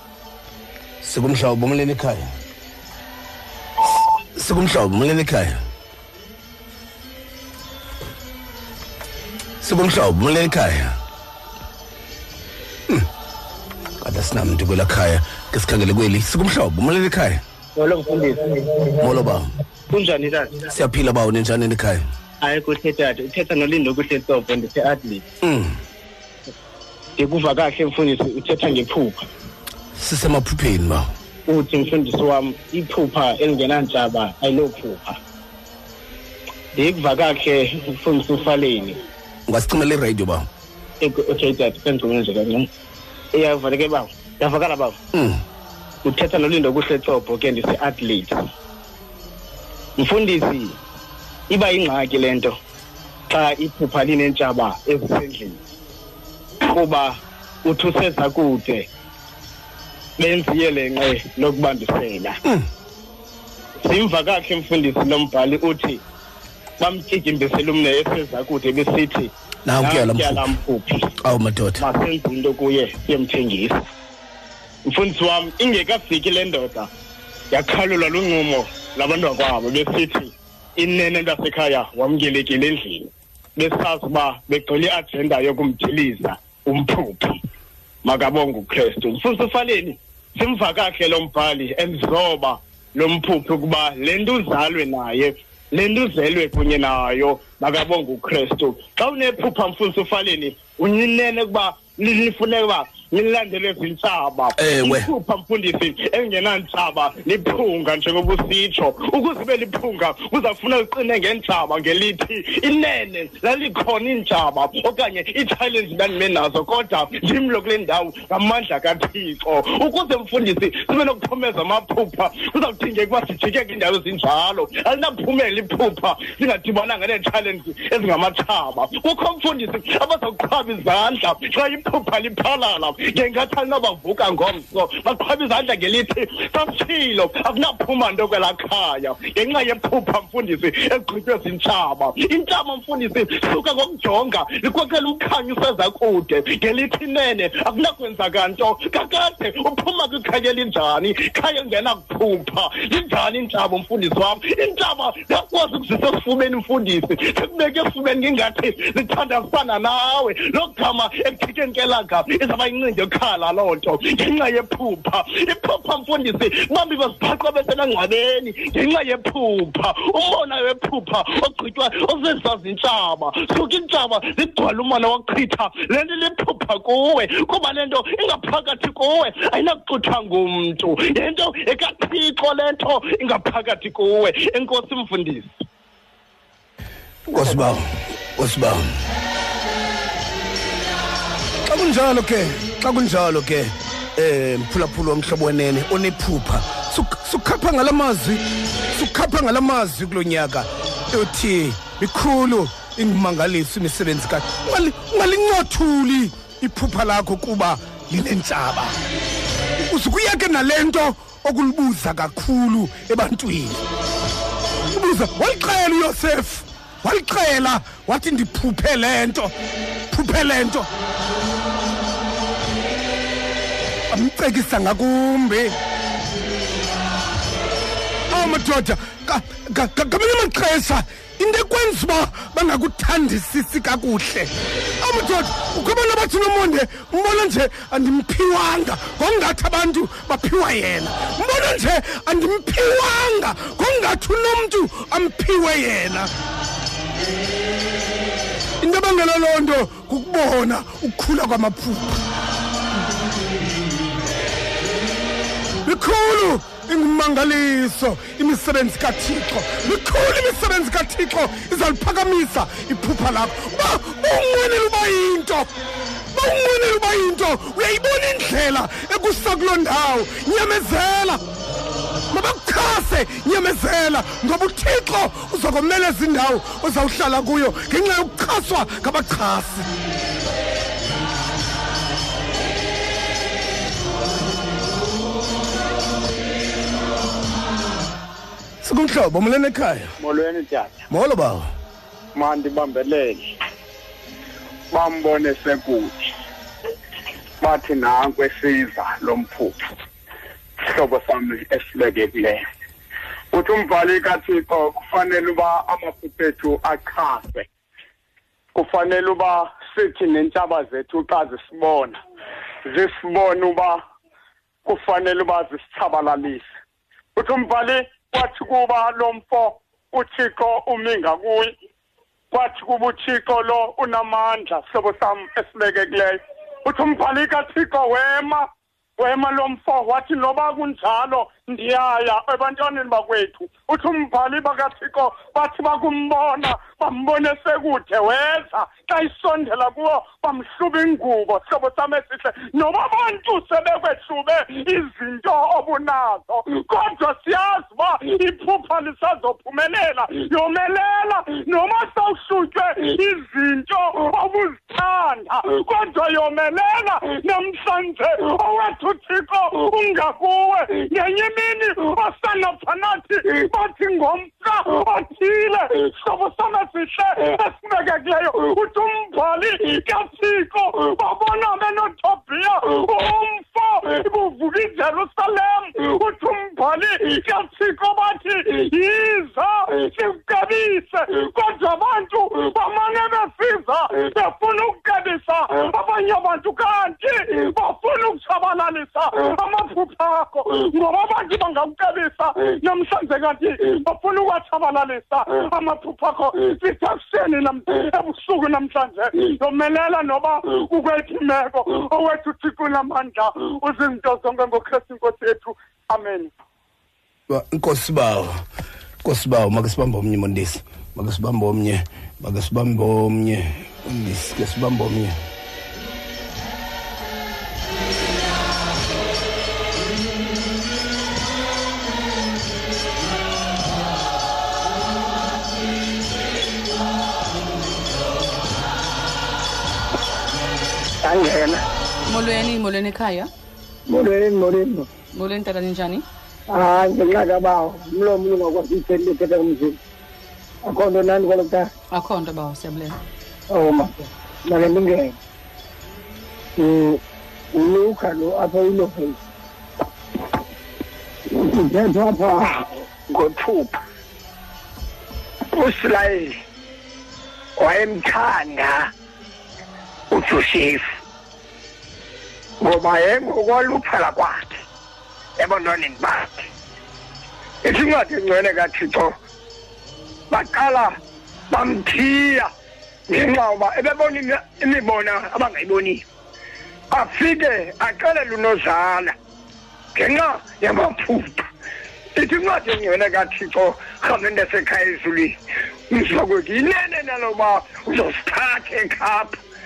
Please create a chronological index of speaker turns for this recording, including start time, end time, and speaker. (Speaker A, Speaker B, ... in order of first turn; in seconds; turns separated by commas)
Speaker A: 1.0-2.3, Speaker A: 4.3-5.6, Speaker A: 9.6-10.9, Speaker A: 14.0-17.4, Speaker B: 17.8-18.9, Speaker A: 19.0-19.5, Speaker B: 19.9-20.6, Speaker A: 20.7-22.0, Speaker B: 22.4-25.2, Speaker A: 25.4-25.8, Speaker B: 27.2-29.2, Speaker A: 30.0-31.1, Speaker B: 31.5-35.2, Speaker B: 36.7-39.0, Speaker A: 39.5-40.5, Speaker B: 41.0-42.7, Speaker B: 43.3-44.9, Speaker A: 45.1-45.4, Speaker B: 46.0-48.4, Speaker B: 50.0-50.8, Speaker B: 51.5-52.5, Speaker B: 53.3-55.6, Speaker B: 56.7-58.9, Speaker B: 60.2-62.4, Speaker B: 63.8-66.0, Speaker B: 66.8-71.0, Speaker A: 69.6-70.5, Speaker A: 71.2-71.8, Speaker B: 71.8-73.9, Speaker B: 74.9-76.9, Speaker B: 77.5-87.4, Speaker B: 88.0-185.5, Speaker A: 104.5-105.1, Speaker A: 187.3-188.9, Speaker A: 191.7-208.9, Speaker A: 209.8-213.8, Speaker A: 214.9-219.5, Speaker A: 220.1-220.9, Speaker A: 224.1-225.8, Speaker A: 228.3-246.3, Speaker A: 248.8-252.2, Speaker A: 255.8-265.7, Speaker A: 266.3-271.4, Speaker A: 272.3-279.9, Speaker A: 288.8-290.1, Speaker C: 290.2-291.0, Speaker A: 291.1-291.7, Speaker C: 292.3-293.5, Speaker C: 294.9-296.1, Speaker C: 297.6-299.8, Speaker C: 300.8-302.6, Speaker C: 303.5-307.6, Speaker C: 308.7-312.2, Speaker C: 312.9-313.9, Speaker C: 314.9-316.6, Speaker D: 317.4-321.7, Speaker D: 322.5-328.7, Speaker D: 329.2-406.5, Speaker A: 407.5-408.6, Speaker A: 409.2-415.4, Speaker E: 431.2-431.8, Speaker F: 432.2-433.5, Speaker E: 434.1-435.1, Speaker F: 435.3-436.2, Speaker E: 436.7-439.9, Speaker E: 440.8-441.9, Speaker F: 442.1-443.2, Speaker E: 443.7-445.3, Speaker E: 446.8-447.2, Speaker E: 447.7-449.4, Speaker E: 451.6-454.0, Speaker E: 455.7-456.5, Speaker E: 457.8-459.0, Speaker E: 460.3-461.0, Speaker E: 462.8-464.7, Speaker E: 465.6-466.6, Speaker E: 467.8-469.3, Speaker E: 470.5-471.1, Speaker E: 471.7-472.7, Speaker E: 473.3-476.2, Speaker E: 477.1-479.3, Speaker E: 480.1-481.6, Speaker E: 482.4-485.5, Speaker E: 486.1-489.5